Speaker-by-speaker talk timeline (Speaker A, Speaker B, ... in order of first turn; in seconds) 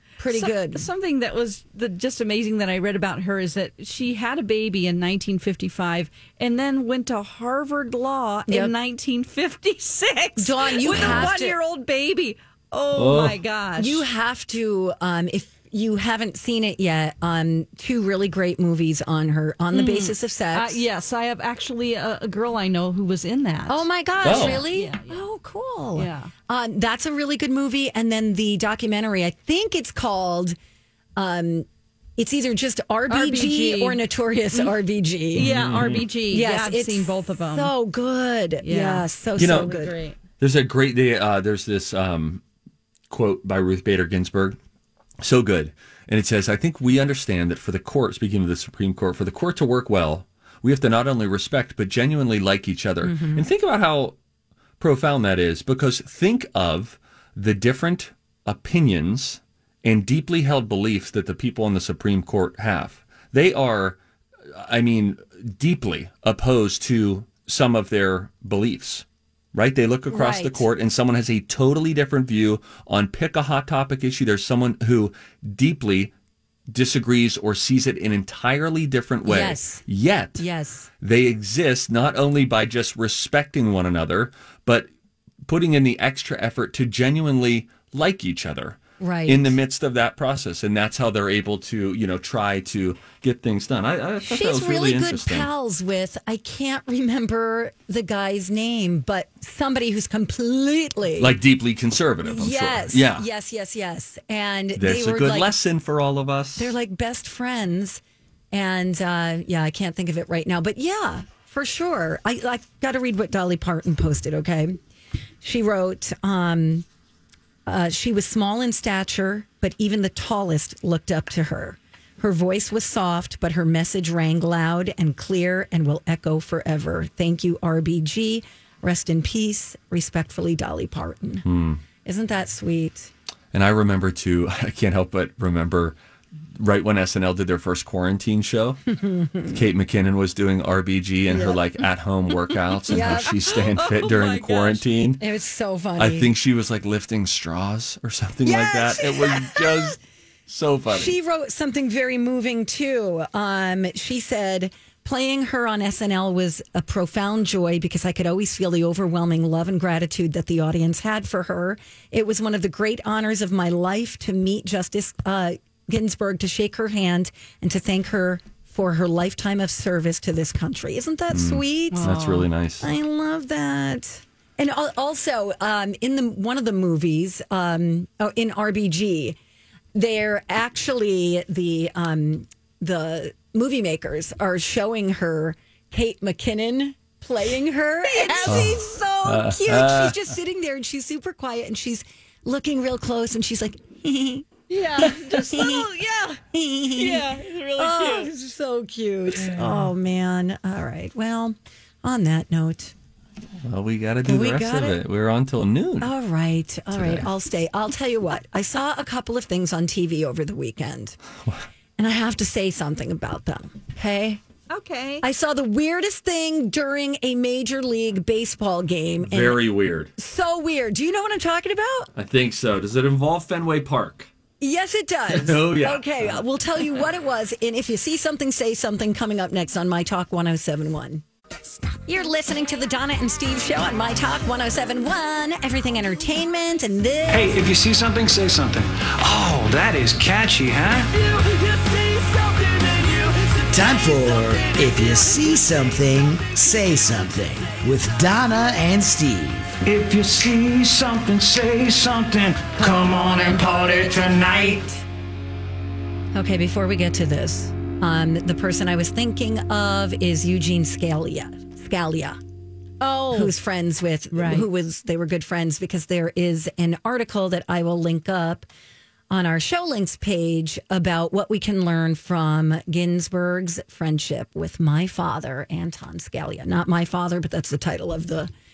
Speaker A: 0.2-0.9, 8.5-8.7, 10.4-11.6, 13.8-20.8, 23.7-30.6, 31.2-31.7, 32.2-35.5, 36.3-39.9, 53.0-53.5, 70.1-70.7, 79.3-79.8, 80.4-80.9, 89.0-89.6, 94.2-101.4, 102.2-105.5, 106.6-114.8, 115.4-116.8, 117.7-131.5, 132.0-133.1, 139.0-139.5, 141.3-141.6, 142.9-143.4, 145.2-146.3, 148.4-149.9, 150.9-172.3, 172.8-179.4, 179.9-195.9, 196.5-202.9, 204.2-205.0, 206.0-211.2, 212.0-214.4, 215.2-219.6, 220.2-222.1, 224.6-231.2, 232.1-237.6, 256.3-262.4, 263.3-268.7, 269.3-278.5
Speaker B: 0.3-14.1, 19.7-25.3, 26.0-26.3, 33.1-34.8, 35.3-37.7, 38.6-40.2, 142.9-144.8, 171.9-172.5, 188.0-188.8, 194.7-196.4, 196.9-198.3, 214.7-215.2, 241.2-244.7, 263.0-263.6, 264.3-264.7
Speaker C: 10.9-11.3, 12.9-13.4, 24.2-24.7, 35.4-36.1, 39.4-39.8, 40.4-42.4, 43.1-44.6, 45.2-54.1, 54.8-64.0, 64.5-76.1, 76.7-80.4, 81.0-84.9, 85.5-95.5, 101.2-103.3, 104.8-106.7, 131.4-131.8, 133.5-136.0, 136.6-138.8, 139.5-145.2, 146.0-151.2, 171.3-172.9, 188.5-190.3, 199.4-199.9, 203.6-206.1, 206.9-207.3, 219.2-220.1, 222.2-224.3, 225.3-226.4
Speaker D: 237.3-241.1, 249.8-255.0
Speaker E: 243.7-249.8